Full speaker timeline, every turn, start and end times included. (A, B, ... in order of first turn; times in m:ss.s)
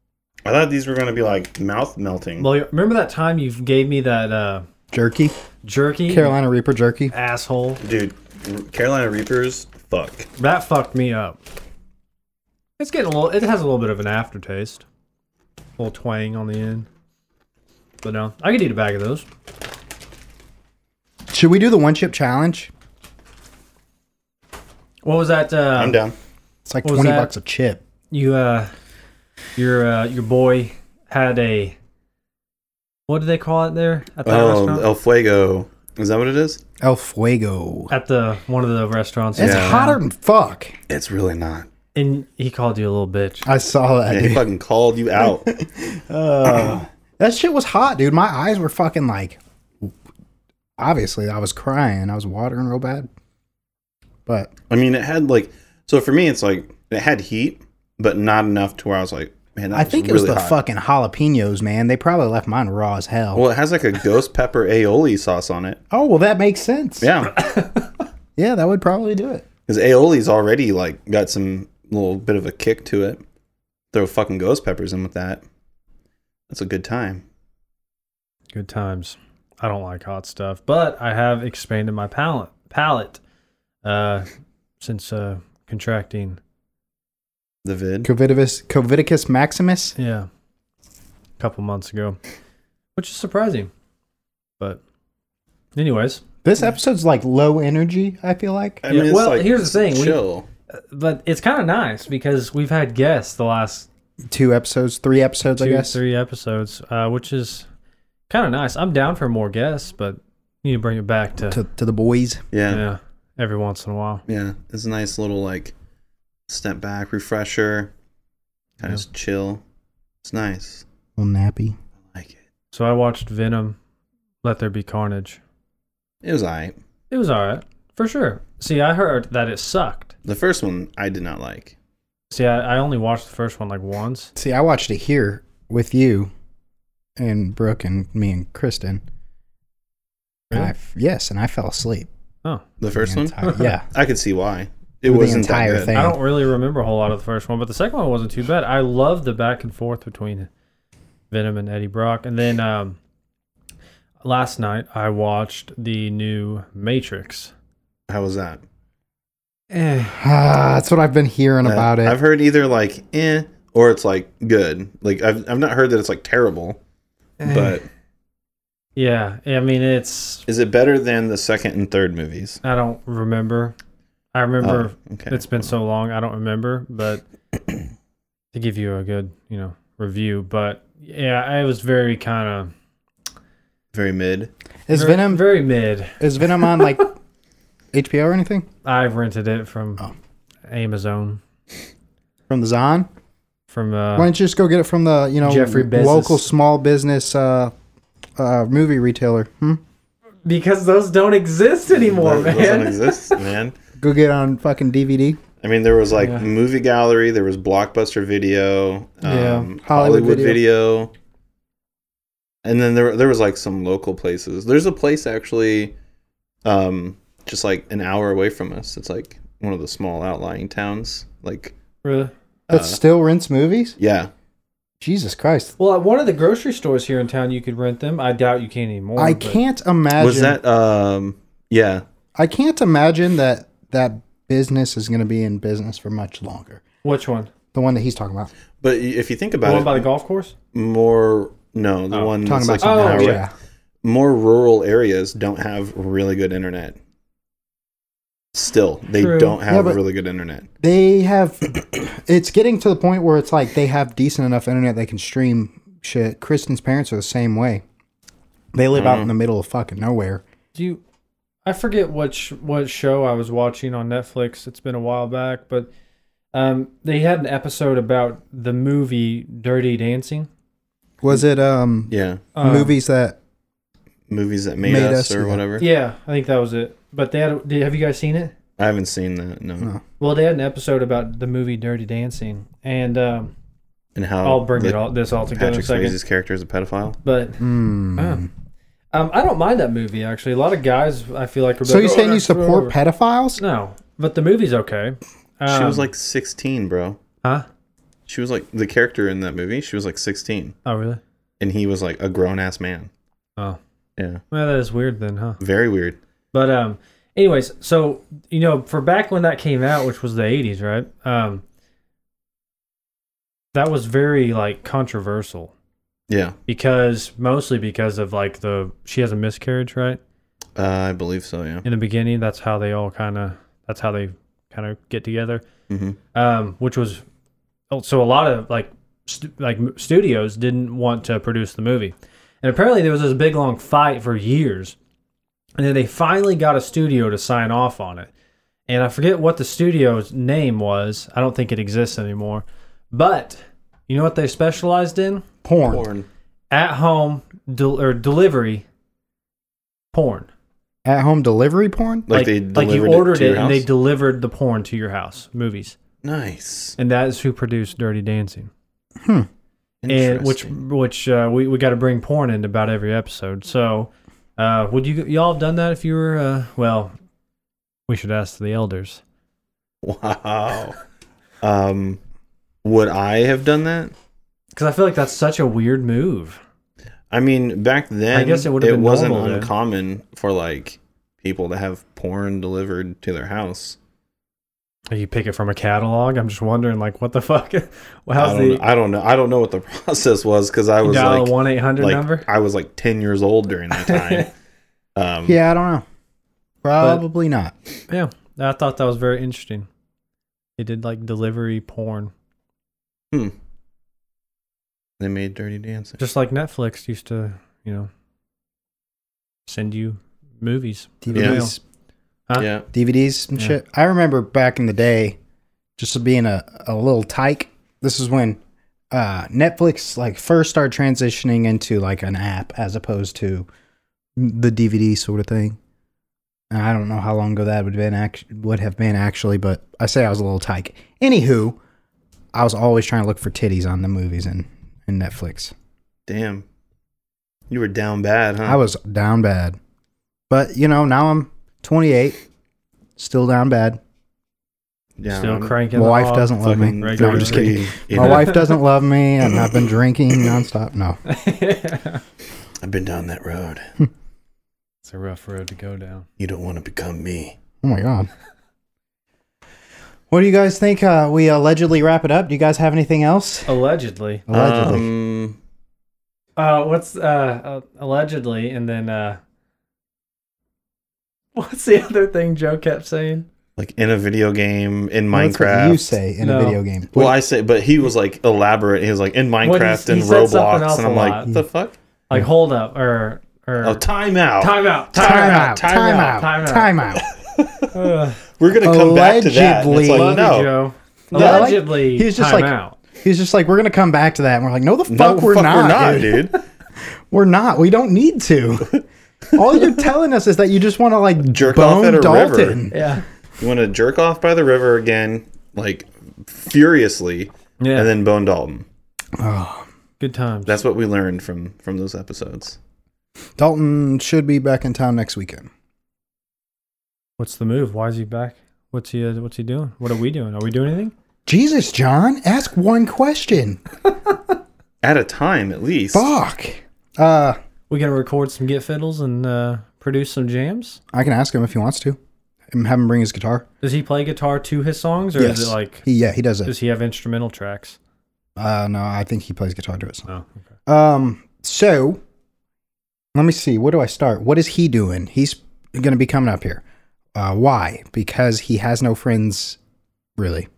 0:00.4-0:02.5 A
0:02.4-0:04.6 B
0:04.9-0:05.4 C
0:05.6-0:06.4 B
0:06.1-0:07.1 C
0:07.1-0:07.8 B
0:07.8-0:10.3 A
0:10.4-0:11.4 B
0:12.8-0:14.8 B
0:15.8-0:16.9 B
0:18.0-0:19.2 B
0:21.3-0:22.7 C
0:25.0-0:26.0 B
0:25.7-0:26.1 A
0:26.6-0:27.8 C
0:26.8-0:27.3 B
0:28.1-0:28.7 B
0:29.6-0:31.8 B
0:33.1-0:34.8 B
0:34.2-0:36.6 A
0:36.8-0:37.9 C
0:37.9-0:40.0 B
0:39.4-0:40.8 C
0:39.4-0:39.8 A
0:40.9-0:41.7 A
0:41.9-0:43.4 B
0:43.4-0:44.4 C
0:44.1-0:45.5 A
0:45.2-0:49.9 C
0:46.4-0:46.8 A
0:50.8-0:53.1 C
0:54.2-0:54.5 C
0:54.7-1:00.6 A
0:59.7-1:03.4 C
1:03.3-1:05.8 A
1:05.9-1:07.1 C
1:07.0-1:07.4 A
1:07.4-1:07.8 B
1:08.4-1:09.4 C
1:09.7-1:13.2 A
1:13.9-1:15.4 A
1:16.5-1:17.2 A
1:18.5-1:23.2 B
1:23.8-1:24.3 B
1:24.8-1:26.4 B
1:27.6-1:28.1 A
1:28.0-1:29.9 C
1:30.0-1:30.3 B
1:31.4-1:32.2 B
1:33.0-1:33.7 B
1:35.7-1:36.2 B
1:36.4-1:38.8 C
1:38.8-1:40.4 A
1:38.9-1:40.2 B
1:40.7-1:43.9 B
1:44.3-1:46.0 C
1:45.6-1:47.6 B
1:48.3-1:51.6 B
1:51.5-1:52.4 C
1:52.5-1:52.8 A
1:52.7-1:54.2 B
1:54.3-1:55.7 A
1:56.5-1:57.9 A
1:58.8-1:59.6 A
2:00.2-2:00.8 A
2:01.2-2:01.8 C
2:02.7-2:03.8 B
2:04.4-2:05.4 B
2:06.2-2:06.8 A
2:07.1-2:10.1 B
2:10.2-2:11.7 A
2:12.3-2:14.3 B
2:14.4-2:16.3 C
2:17.2-2:19.0 C
2:20.5-2:22.1 C
2:22.8-2:26.0 A
2:22.9-2:23.8 C
2:23.4-2:23.8 B
2:25.0-2:26.2 C
2:25.9-2:30.5 B
2:31.3-2:33.0 B
2:34.2-2:37.5 B
2:38.1-2:38.6 A
2:39.7-2:40.2 B
2:40.1-2:42.2 C
2:41.6-2:46.8 A
2:47.4-2:47.8 B
2:47.4-2:47.8 A
2:49.0-2:50.4 B
2:50.5-2:52.6 A
2:52.6-2:53.7 B
2:54.3-2:57.2 B
2:54.6-2:55.7 A
2:58.5-3:02.7 B
3:03.9-3:04.5 A
3:04.9-3:05.5 C
3:04.9-3:07.0 B
3:06.2-3:07.1 C
3:07.9-3:08.7 C
3:08.8-3:10.0 B
3:10.7-3:11.4 B
3:12.5-3:13.1 C
3:13.7-3:14.3 B
3:14.1-3:17.7 C
3:15.4-3:16.5 B
3:18.4-3:19.8 C
3:20.4-3:23.4 B
3:21.9-3:23.7 A
3:24.0-3:25.4 C
3:25.6-3:31.1 A
3:29.2-3:29.7 B
3:29.8-3:30.6 C
3:32.6-3:35.9 A
3:36.6-3:41.7 A
3:42.0-3:42.3 B
3:42.7-3:43.0 A
3:42.7-3:44.0 C
3:44.0-3:44.3 A
3:45.0-3:45.7 C
3:45.8-3:49.6 B
3:49.2-3:50.6 C
3:50.2-3:52.0 A
3:52.4-3:56.8 C
3:57.0-3:57.5 B
3:57.7-3:58.5 C
3:58.8-4:00.1 A
3:59.6-4:00.5 B
4:00.7-4:03.4 A
4:02.1-4:03.4 B
4:02.4-4:03.5 C
4:04.0-4:07.0 A
4:08.5-4:10.7 A
4:09.1-4:09.6 B
4:09.7-4:10.0 C
4:10.8-4:17.8 C
4:18.7-4:20.4 C
4:18.9-4:19.3 A
4:20.7-4:21.0 B
4:21.6-4:25.9 B
4:26.5-4:30.5 B
4:31.2-4:33.4 C
4:32.1-4:32.4 A
4:32.5-4:32.9 B
4:34.3-4:35.8 A
4:34.8-4:35.6 C
4:35.8-4:38.5 B
4:38.8-4:39.9 A
4:40.2-4:43.5 B
4:44.1-4:47.2 A
4:44.4-4:46.2 B
4:47.2-4:47.6 B
4:47.6-4:48.5 C
4:48.2-4:48.4 B
4:49.1-4:52.9 B
4:51.8-4:53.6 C
4:53.6-4:56.1 B
4:55.7-4:57.2 A
4:58.3-5:00.7 A
5:00.8-5:01.2 B
5:01.6-5:03.1 A
5:04.5-5:05.6 B
5:05.6-5:06.2 A
5:06.5-5:11.6 B
5:13.7-5:15.7 B
5:16.3-5:16.6 A
5:16.7-5:20.2 B
5:20.8-5:21.8 A
5:21.8-5:25.6 B
5:25.9-5:26.2 A
5:26.3-5:27.2 B
5:27.9-5:34.9 B
5:35.8-5:38.3 B
5:38.9-5:45.4 B
5:45.6-5:46.0 C
5:45.8-5:46.3 A
5:46.7-5:48.8 B
5:50.1-5:50.5 B
5:51.0-5:52.3 C
5:52.3-5:53.8 A
5:52.3-5:56.0 B
5:56.2-5:57.0 A
5:57.0-5:58.7 B
5:59.2-5:59.5 C
6:00.0-6:00.7 A
6:00.1-6:07.1 B
6:08.1-6:09.2 B
6:10.0-6:11.0 A
6:11.6-6:12.2 A
6:12.8-6:14.1 A
6:14.7-6:16.6 B
6:17.3-6:24.0 A
6:18.3-6:19.7 B
6:25.1-6:28.8 B
6:28.3-6:34.5 A
6:31.0-6:32.5 B
6:33.9-6:34.5 B
6:35.2-6:35.6 A
6:35.5-6:36.0 C
6:36.8-6:37.7 C
6:38.1-6:39.9 B
6:40.8-6:42.3 B
6:45.2-6:46.2 A
6:46.2-6:48.1 B
6:49.7-6:51.7 B
6:51.2-6:51.8 C
6:51.3-6:51.6 A
6:52.6-6:52.8 A
6:52.9-6:55.4 C
6:56.0-6:58.6 C
6:59.1-7:03.7 C
7:04.4-7:05.8 C
7:06.7-7:11.8 C
7:12.5-7:15.7 C
7:16.3-7:16.6 A
7:17.7-7:18.8 A
7:18.6-7:19.8 C
7:20.5-7:22.4 C
7:23.2-7:24.0 C
7:25.2-7:25.8 A
7:25.3-7:28.7 B
7:25.9-7:31.2 C
7:26.6-7:28.6 A
7:31.2-7:32.2 B
7:32.8-7:33.9 A
7:35.0-7:36.3 B
7:36.4-7:37.6 A
7:37.8-7:38.3 C
7:40.3-7:43.7 C
7:43.7-7:44.4 B
7:44.5-7:45.1 C
7:44.5-7:45.6 A
7:46.6-7:49.4 B
7:51.5-7:53.4 B
7:53.8-7:56.1 A
7:55.3-7:57.4 C
7:56.4-7:56.8 B
7:57.1-8:01.9 A
7:59.6-8:01.5 B
8:02.3-8:04.0 B
8:03.8-8:06.3 A
8:04.6-8:07.2 B
8:05.1-8:07.2 C
8:07.3-8:07.9 A
8:07.9-8:08.4 B
8:08.6-8:10.7 A
8:08.8-8:10.4 C
8:09.9-8:13.0 B
8:11.3-8:16.5 C
8:11.3-8:11.7 A
8:15.1-8:16.6 A
8:17.3-8:23.0 C
8:21.4-8:22.9 A
8:22.9-8:23.2 B
8:23.6-8:28.8 A
8:27.8-8:28.1 B
8:29.4-8:29.9 C
8:30.2-8:30.8 B
8:30.7-8:32.8 A
8:33.6-8:35.7 C
8:37.4-8:41.1 B
8:41.5-8:43.8 C
8:45.0-8:46.3 A
8:46.1-8:47.6 C
8:47.9-8:51.0 B
8:51.1-8:52.2 C
8:52.7-8:53.6 C
8:53.8-8:56.0 B
8:55.3-8:56.7 C
8:56.6-8:58.0 B
8:58.6-9:00.3 C
9:00.3-9:00.5 B
9:00.9-9:02.2 C
9:03.3-9:06.8 C
9:07.3-9:09.8 C
9:10.4-9:10.7 C